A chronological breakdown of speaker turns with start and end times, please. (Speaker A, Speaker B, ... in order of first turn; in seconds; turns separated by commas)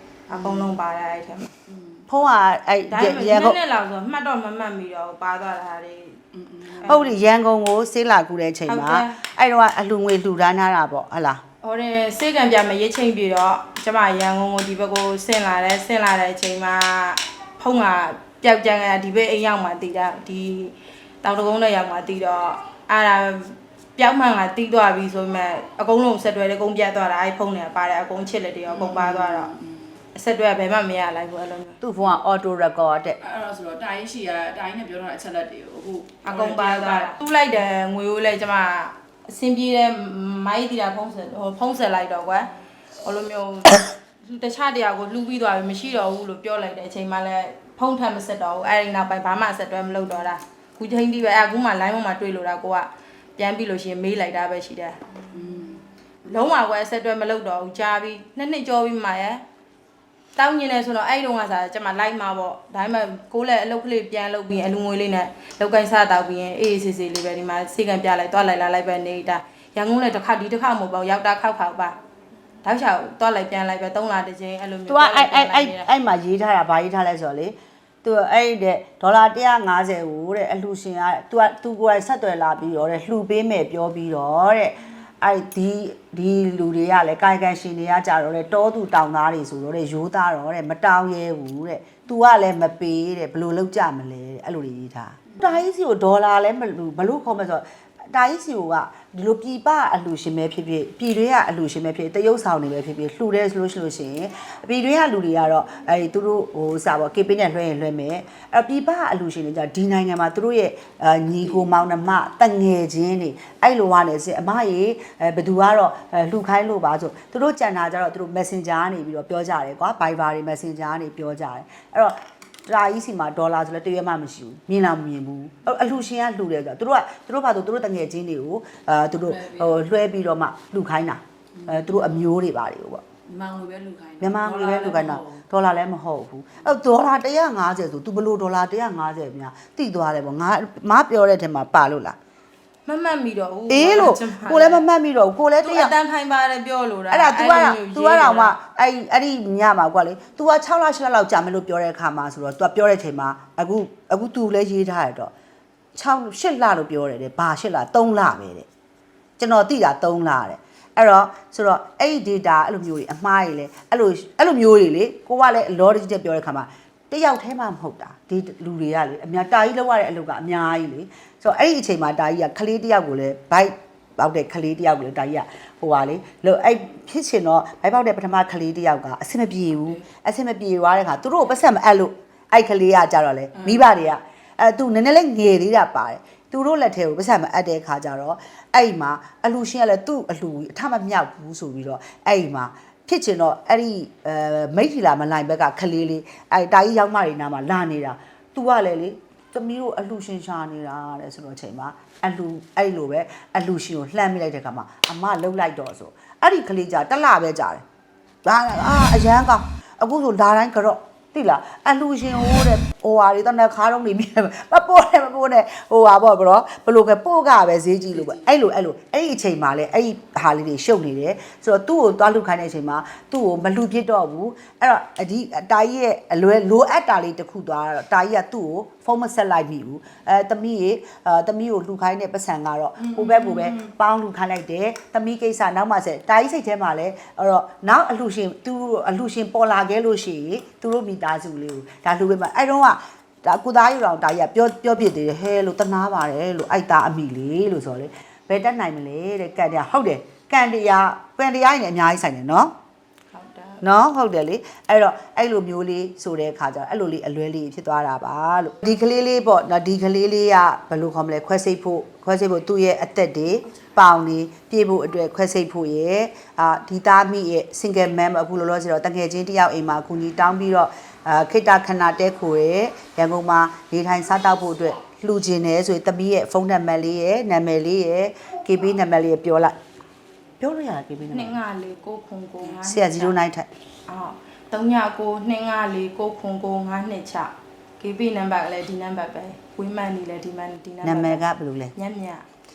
Speaker A: 0.3-1.5, Speaker B: 0.3-0.7, Speaker B: 1.6-2.1, Speaker C: 2.1-3.6, Speaker A: 2.9-6.2, Speaker B: 6.3-6.9, Speaker A: 6.8-7.1, Speaker C: 6.8-11.4, Speaker A: 8.7-9.2, Speaker A: 11.6-29.5, Speaker B: 28.7-29.9, Speaker A: 30.1-31.8, Speaker C: 31.8-33.2, Speaker B: 33.2-37.1, Speaker A: 36.2-55.0, Speaker B: 55.3-55.8, Speaker A: 56.2-59.4, Speaker A: 60.4-72.0, Speaker A: 72.6-75.9, Speaker C: 74.9-133.0, Speaker B: 129.2-129.8, Speaker B: 131.7-132.0, Speaker B: 133.3-135.4, Speaker C: 134.2-142.2, Speaker A: 142.8-144.9, Speaker C: 143.7-145.9, Speaker A: 145.6-148.6, Speaker C: 147.1-155.3, Speaker C: 155.9-158.7, Speaker C: 159.4-207.8, Speaker C: 208.4-252.7, Speaker A: 253.3-253.8, Speaker C: 253.8-279.8, Speaker C: 280.6-281.6, Speaker A: 281.3-283.4, Speaker C: 282.7-283.7, Speaker A: 284.1-291.4, Speaker C: 291.0-291.9, Speaker A: 291.9-292.4